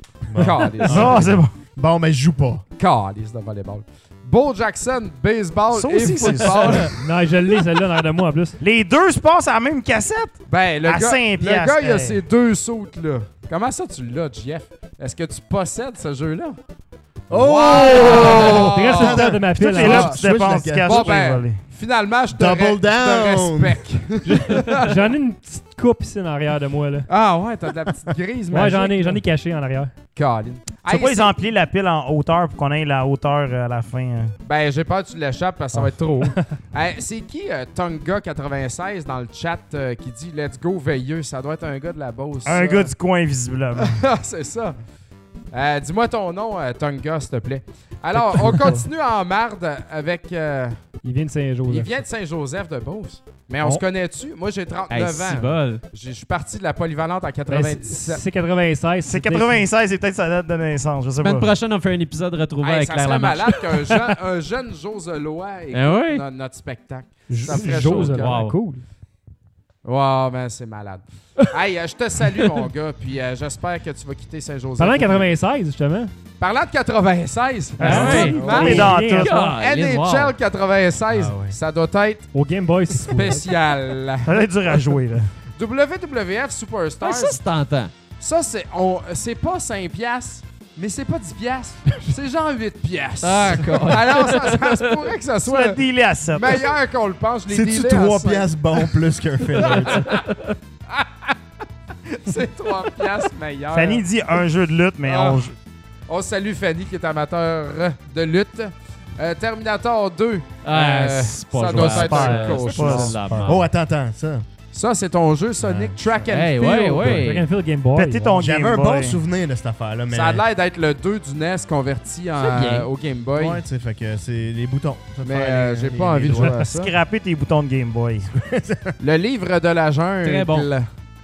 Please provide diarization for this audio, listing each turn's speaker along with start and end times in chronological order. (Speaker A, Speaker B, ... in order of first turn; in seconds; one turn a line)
Speaker A: 0.3-2.6
Speaker B: 0.3-1.3
Speaker C: 0.8-1.5
Speaker B: 2.8-7.0
Speaker C: 5.7-7.0
Speaker D: 6.2-8.6
Speaker C: 8.6-12.2
Speaker B: 10.5-16.6
Speaker B: 17.3-19.3
Speaker A: 17.3-21.2
Speaker D: 18.4-20.2
Speaker C: 19.5-21.6
Speaker B: 19.8-20.2
Speaker B: 20.8-24.9
Speaker A: 22.3-23.8
Speaker D: 24.3-27.1
Speaker B: 27.1-29.2
Speaker D: 28.5-29.9
Speaker B: 30.1-31.4
Speaker C: 30.8-34.4
Speaker B: 34.4-42.9
Speaker C: 42.4-44.0
Speaker B: 43.8-44.8
Speaker B: 45.5-50.9
Speaker C: 48.1-48.8
Speaker D: 51.0-51.9
Speaker B: 51.7-58.2
Speaker E: 54.9-55.8
Speaker D: 57.5-59.7
Speaker C: 59.0-61.5
Speaker E: 61.2-63.9
Speaker B: 62.6-68.5
Speaker E: 65.7-66.2
Speaker D: 67.3-68.8
Speaker E: 67.5-68.5
Speaker B: 69.8-75.3
Speaker D: 74.8-76.1
Speaker B: 76.4-82.3
Speaker D: 77.8-79.5
Speaker E: 77.8-80.3
Speaker C: 77.8-79.5
Speaker A: 81.1-81.6
Speaker D: 82.3-83.5
Speaker B: 82.9-84.5
Speaker C: 84.2-85.3
Speaker B: 85.5-87.4
Speaker E: 87.0-87.9
Speaker B: 88.2-98.9
Speaker E: 93.2-95.1
Speaker C: 95.4-96.7
Speaker A: 97.5-100.2
Speaker B: 99.5-100.3
Speaker E: 100.1-100.4
Speaker B: 100.9-101.4
Speaker B: 102.1-104.1
Speaker C: 103.7-105.5
Speaker B: 105.0-105.4
Speaker B: 106.1-113.2
Speaker E: 110.6-113.6
Speaker C: 111.7-113.6
Speaker A: 113.4-114.5
Speaker B: 114.7-117.2
Speaker A: 115.6-116.3
Speaker E: 116.3-117.5
Speaker A: 117.0-117.3
Speaker D: 117.0-118.4
Speaker C: 117.9-119.2
Speaker A: 118.4-120.4
Speaker B: 120.1-123.6
Speaker E: 122.4-122.9
Speaker A: 123.3-126.6
Speaker B: 125.2-127.0
Speaker C: 126.4-128.3
Speaker A: 128.4-129.0
Speaker B: 129.0-130.9
Speaker E: 130.2-130.7